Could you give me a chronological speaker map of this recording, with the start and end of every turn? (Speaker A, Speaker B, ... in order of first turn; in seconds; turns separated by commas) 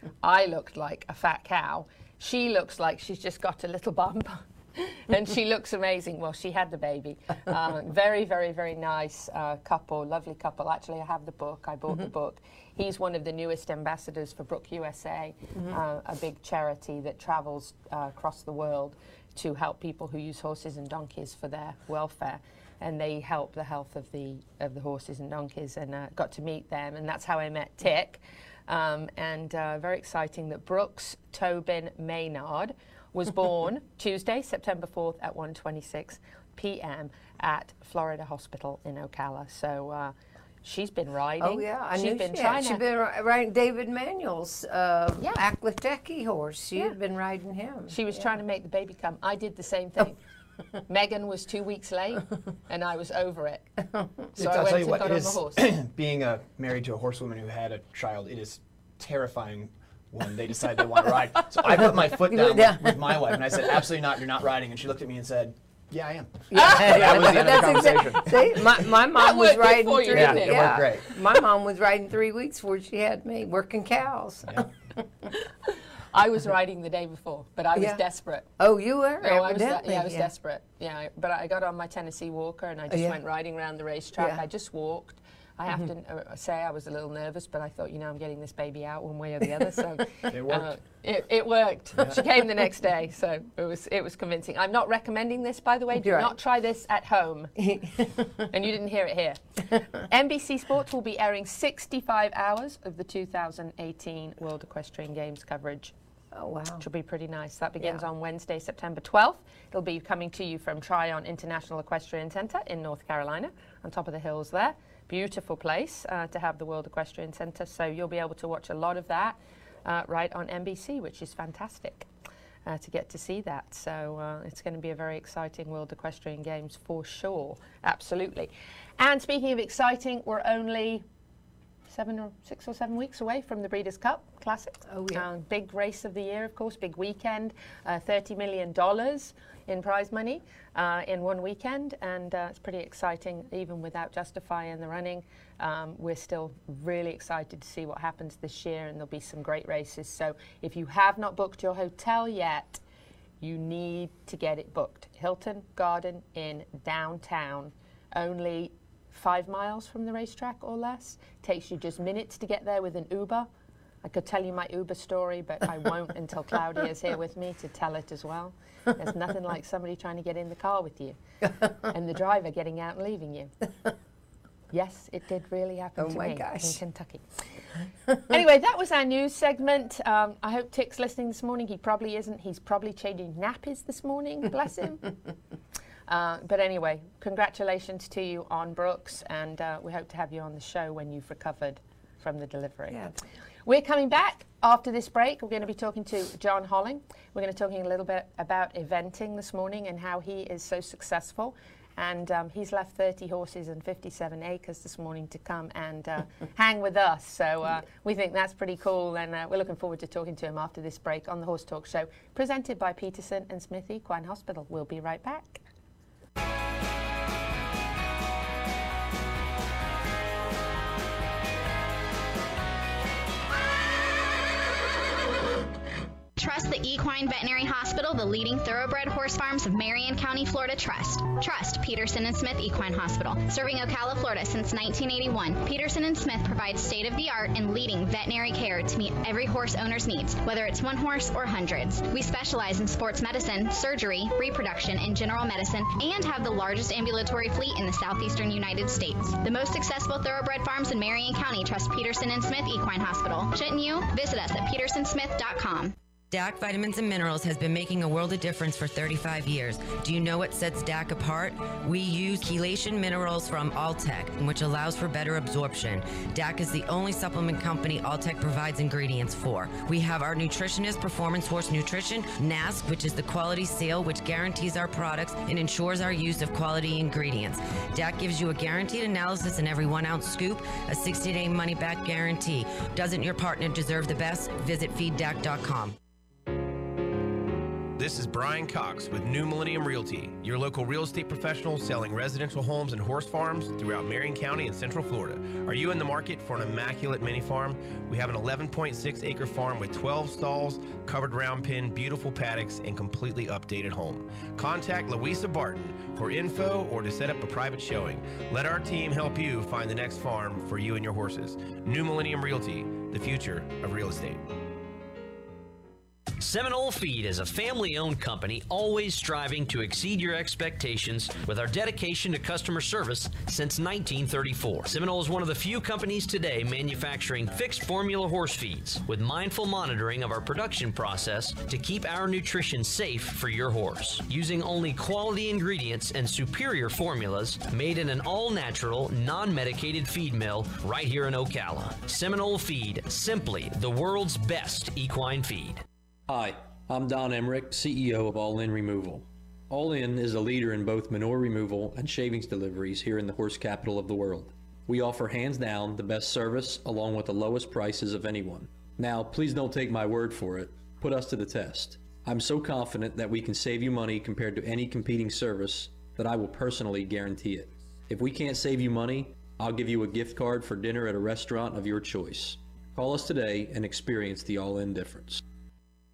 Speaker A: 0.2-42.8, Speaker B: 41.4-48.2, Speaker A: 47.9-50.2, Speaker A: 50.9-53.7, Speaker A: 54.4-55.7, Speaker C: 54.4-68.7, Speaker B: 61.6-63.7, Speaker B: 66.5-74.7, Speaker A: 66.7-67.7, Speaker A: 69.1-70.8, Speaker C: 70.1-71.1, Speaker A: 76.1-78.5, Speaker B: 77.7-78.0, Speaker B: 78.6-80.3, Speaker A: 79.2-97.5, Speaker B: 82.9-83.2, Speaker B: 84.2-84.4, Speaker C: 90.3-90.7, Speaker B: 96.0-96.3, Speaker B: 97.6-98.4, Speaker A: 98.5-99.4, Speaker A: 100.1-105.9, Speaker B: 106.3-106.8, Speaker A: 106.8-122.1, Speaker A: 122.7-131.0, Speaker A: 131.9-152.8, Speaker B: 134.8-135.2, Speaker A: 153.4-163.5, Speaker A: 164.0-171.2, Speaker B: 171.4-171.8, Speaker A: 171.9-173.5, Speaker A: 174.7-177.2, Speaker B: 176.0-176.8, Speaker A: 178.3-185.1, Speaker A: 186.1-193.0, Speaker B: 192.9-193.2, Speaker A: 193.7-215.6, Speaker D: 226.4-255.9, Speaker E: 256.3-285.9, Speaker F: 288.0-314.4, Speaker G: 316.4-345.8, Speaker H: 346.3-375.4